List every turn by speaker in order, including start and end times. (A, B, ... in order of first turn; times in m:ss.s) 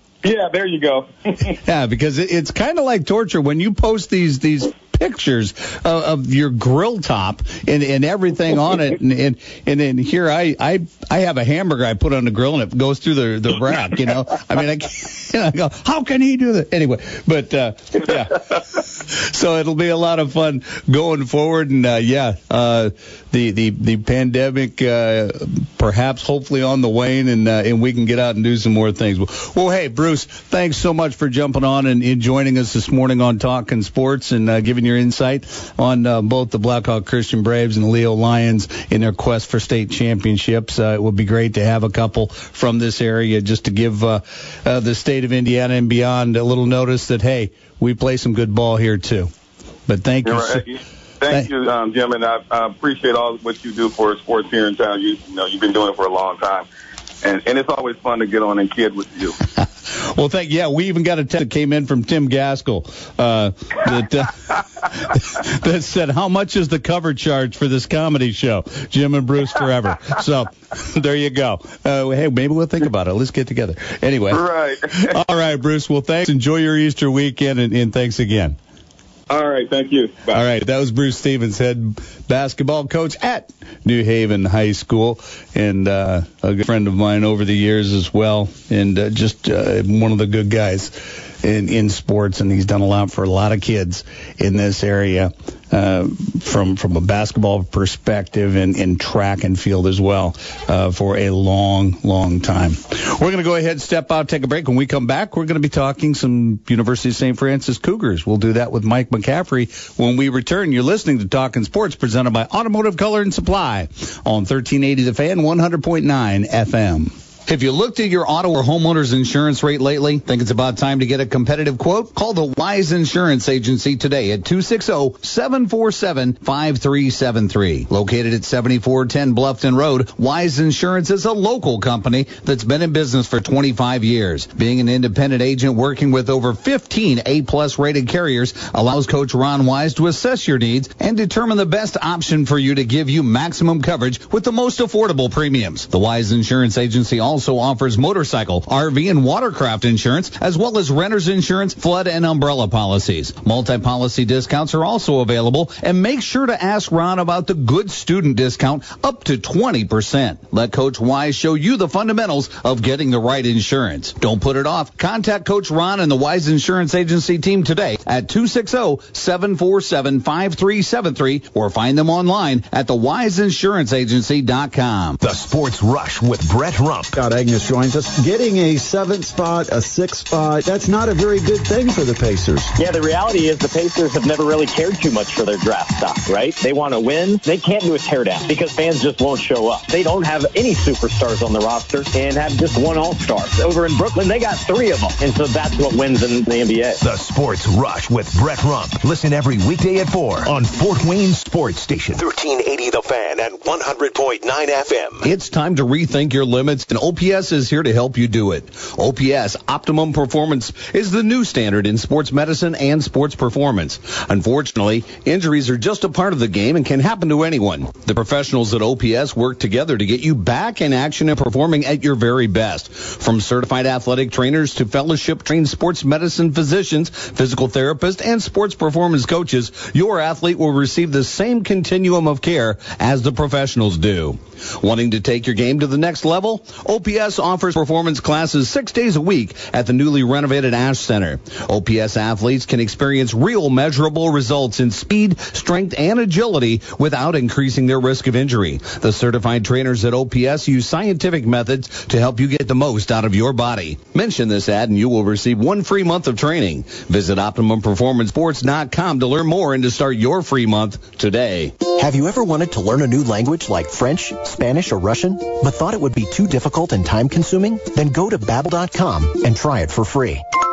0:00.2-0:01.5 A
0:01.6-0:49.3 B
0:49.9-0:50.6 B
0:50.2-0:56.7 A
0:57.2-0:59.4 A
0:59.6-1:18.6 B
1:14.3-1:15.1 A
1:19.3-1:20.4 A
1:20.3-2:55.2 B
2:55.2-2:57.1 C
2:57.1-3:02.7 D
3:02.8-3:17.0 E
3:17.0-3:25.2 C
3:25.2-4:21.8 B
4:21.9-4:30.4 F